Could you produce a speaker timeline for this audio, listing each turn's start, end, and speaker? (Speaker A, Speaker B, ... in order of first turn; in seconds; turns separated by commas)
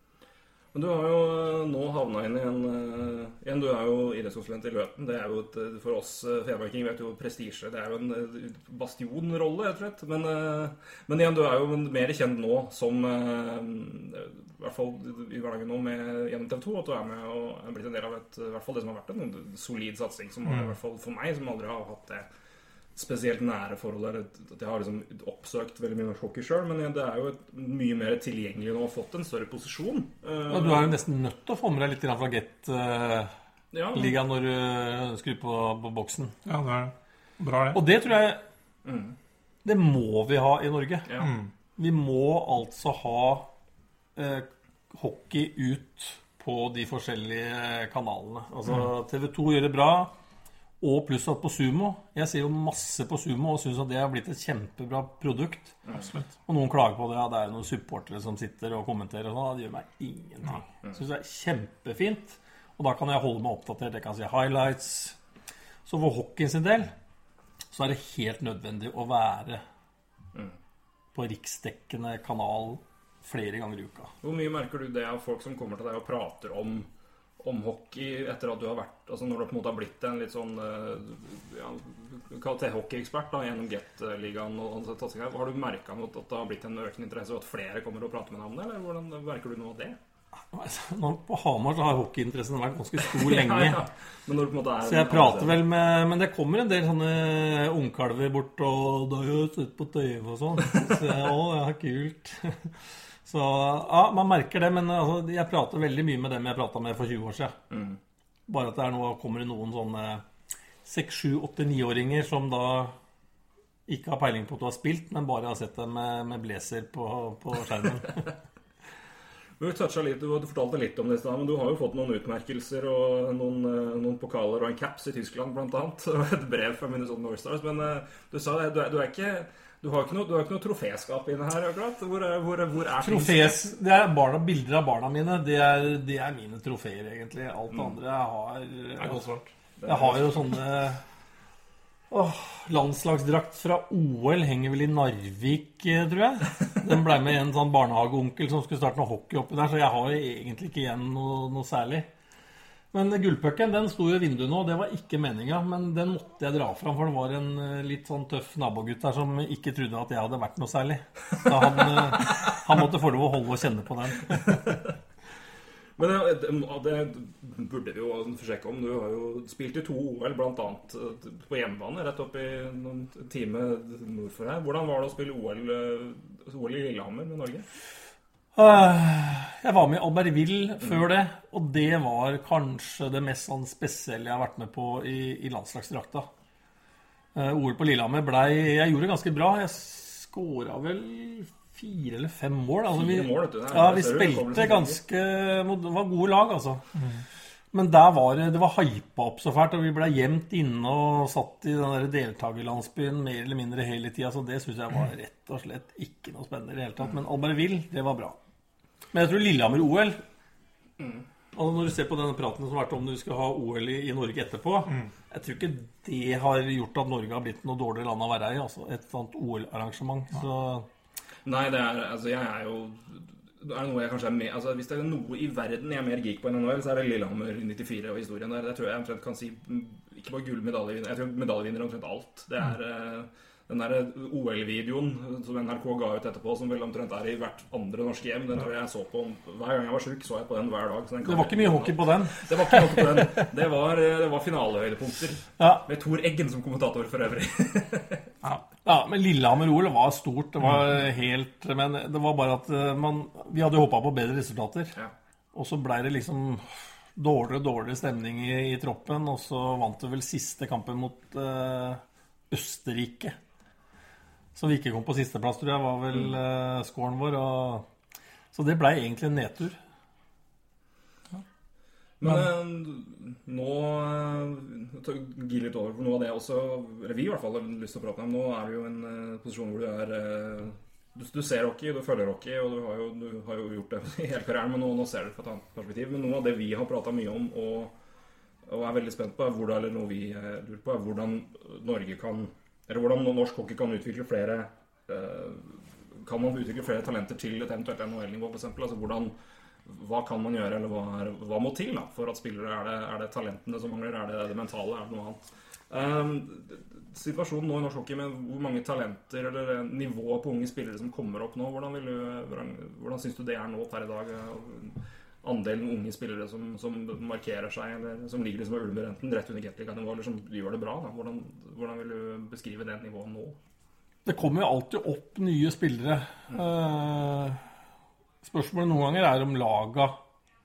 Speaker A: 0.7-22.3, Speaker A: 22.9-31.0, Speaker B: 30.5-33.3, Speaker A: 33.7-34.1, Speaker B: 33.9-36.3, Speaker C: 36.4-37.8, Speaker B: 37.7-38.4, Speaker A: 38.8-39.1, Speaker B: 39.6-41.1, Speaker C: 41.2-41.5, Speaker B: 41.8-43.5, Speaker B: 44.1-50.1, Speaker B: 50.8-55.8, Speaker C: 55.9-56.3, Speaker B: 56.5-65.2, Speaker B: 65.8-66.9, Speaker B: 67.7-69.6, Speaker B: 71.1-74.1, Speaker A: 74.2-76.9, Speaker A: 77.4-90.0, Speaker B: 90.5-93.8, Speaker A: 93.0-95.6, Speaker B: 94.8-102.7, Speaker B: 103.2-107.5, Speaker A: 107.7-108.0, Speaker B: 108.5-110.2, Speaker B: 110.8-112.9, Speaker B: 113.9-118.2, Speaker A: 119.6-133.6, Speaker B: 133.0-139.2, Speaker C: 139.0-139.5, Speaker A: 139.8-140.4, Speaker B: 139.8-141.0, Speaker B: 142.1-152.1, Speaker B: 152.9-164.7, Speaker A: 166.0-177.7, Speaker B: 178.5-186.3, Speaker B: 187.3-196.8, Speaker A: 192.9-195.0, Speaker C: 197.0-197.2, Speaker B: 197.7-208.4, Speaker B: 209.1-210.2, Speaker B: 211.5-220.9, Speaker A: 221.4-248.3, Speaker B: 241.2-243.4, Speaker B: 245.6-245.8, Speaker B: 248.8-254.9, Speaker B: 255.5-263.4, Speaker B: 264.5-267.9, Speaker B: 268.5-269.8, Speaker A: 272.2-287.9, Speaker A: 288.6-299.3, Speaker A: 299.9-323.6, Speaker B: 324.2-327.6, Speaker B: 328.4-330.1